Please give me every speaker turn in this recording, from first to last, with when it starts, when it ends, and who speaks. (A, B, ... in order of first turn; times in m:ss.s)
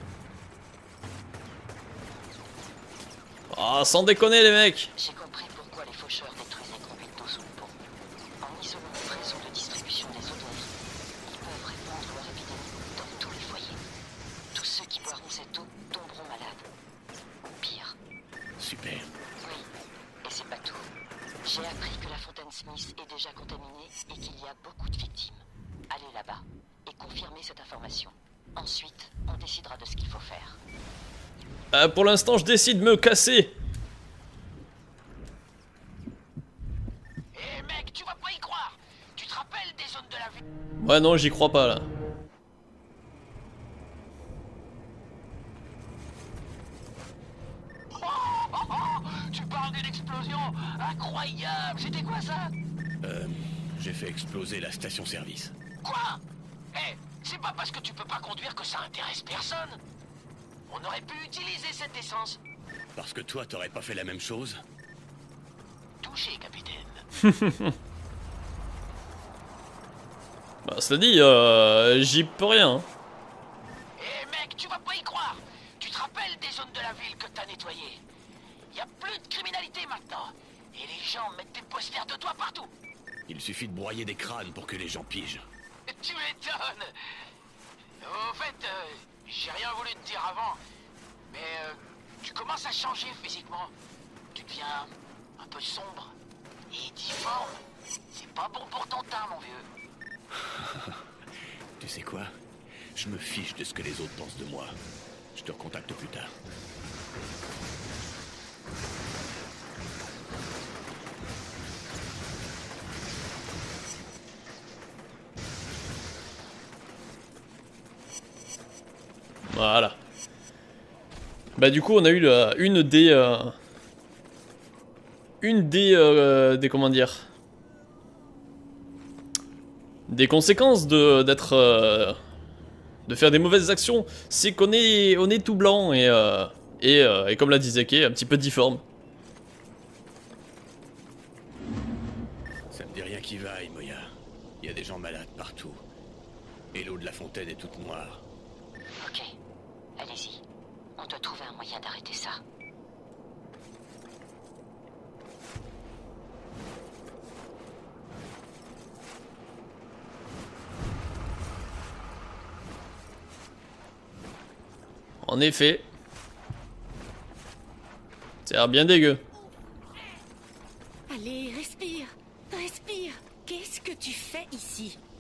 0:03.5-0:04.9 A
0:05.0-0:07.8 B
0:08.4-0:10.7 B
0:11.2-0:13.8 B
0:14.5-0:16.7 B
0:17.4-0:18.0 B
0:18.6-0:19.1 C
0:19.4-0:19.7 B
0:20.2-0:20.9 B
0:21.4-0:30.6 B
0:31.7-0:33.6 A
0:37.3-0:40.4 D
0:40.8-0:41.9 A
0:47.9-0:52.5 D
0:53.0-0:55.6 C
0:55.8-0:56.2 D
0:56.7-0:59.8 D
1:00.7-1:02.4 D
1:02.9-1:04.6 C
1:06.0-1:07.0 D
1:07.2-1:07.7 A
1:10.6-1:12.8 A
1:14.0-1:18.0 D
1:18.7-1:22.7 D
1:23.3-1:25.5 C
1:25.9-1:27.2 D
1:28.0-1:30.6 D
1:31.3-1:33.7 D
1:34.3-1:36.2 D
1:36.7-1:37.6 D
1:38.1-1:39.7 D
1:40.3-1:41.0 C
1:41.8-1:42.3 C
1:42.9-1:44.8 C
1:45.3-1:46.3 C
1:59.5-2:00.0 A
2:01.6-2:03.6 A
2:05.4-2:07.2 A
2:10.1-2:12.2 A
2:13.1-2:18.8 A
2:22.7-2:25.8 C
2:26.7-2:28.2 C
2:29.0-2:29.3 B
2:30.0-2:30.4 B
2:31.0-2:32.4 B
2:45.2-2:45.9 A
2:48.4-2:49.2 A
2:51.1-2:55.0 E